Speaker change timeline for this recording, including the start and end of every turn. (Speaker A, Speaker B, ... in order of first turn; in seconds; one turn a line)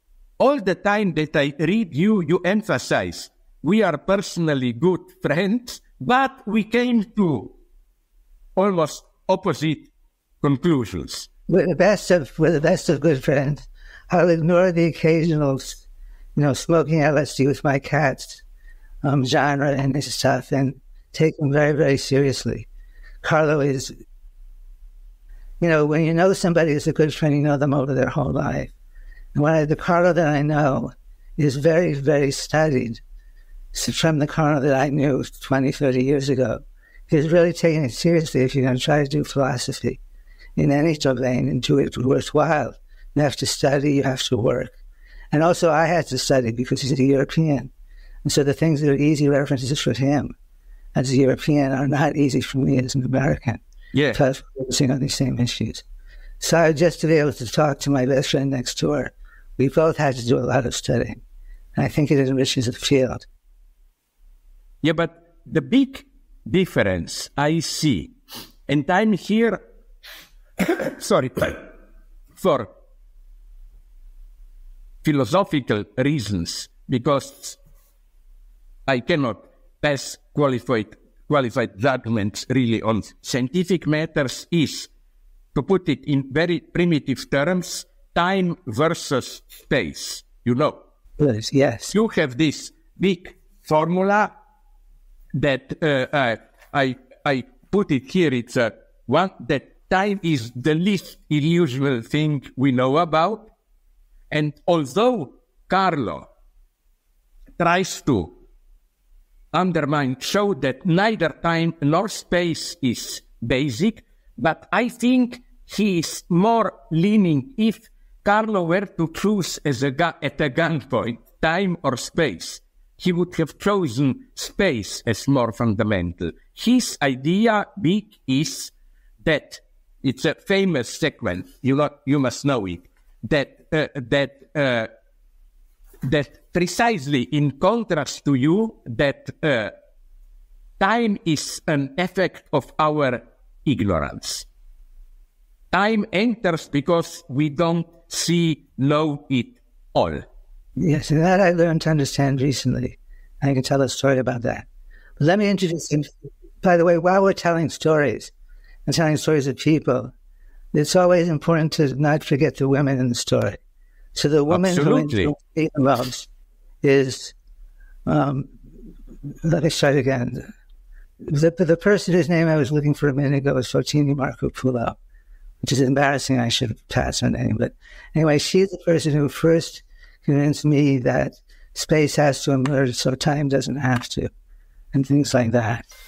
Speaker A: 0.4-7.5
Speaker A: 8.6-11.3
Speaker B: 11.5-18.4
Speaker B: 19.0-22.7
Speaker B: 23.2-23.9
Speaker B: 25.6-28.7
Speaker B: 29.3-33.0
Speaker B: 33.7-40.0
Speaker B: 40.5-44.7
Speaker B: 45.3-47.7
Speaker B: 48.2-50.3
Speaker B: 50.9-53.6
Speaker A: 53.9-54.2
Speaker B: 54.1-55.8
Speaker B: 56.4-61.2
Speaker B: 61.8-63.3
Speaker A: 64.8-68.1
Speaker A: 68.7-69.6
Speaker A: 70.6-71.6
Speaker A: 72.3-72.7
Speaker A: 75.0-77.6
Speaker A: 78.9-84.9
Speaker A: 85.5-90.8
Speaker B: 91.2-91.9
Speaker A: 91.9-94.3
Speaker A: 95.3-103.5
Speaker A: 104.3-106.3
Speaker A: 107.6-108.3
Speaker A: 109.5-134.9
Speaker A: 136.0-139.7
Speaker A: 140.8-144.5
Speaker A: 145.7-150.2
Speaker B: 150.8-154.7
Speaker B: 155.2-158.3
Speaker B: 158.8-160.1
Speaker B: 160.7-163.6
Speaker B: 164.1-166.3
Speaker A: 164.5-165.3
Speaker B: 166.8-167.3
Speaker B: 168.1-168.5
Speaker B: 169.4-170.4
Speaker B: 171.3-175.0
Speaker B: 175.6-184.3
Speaker B: 184.9-185.9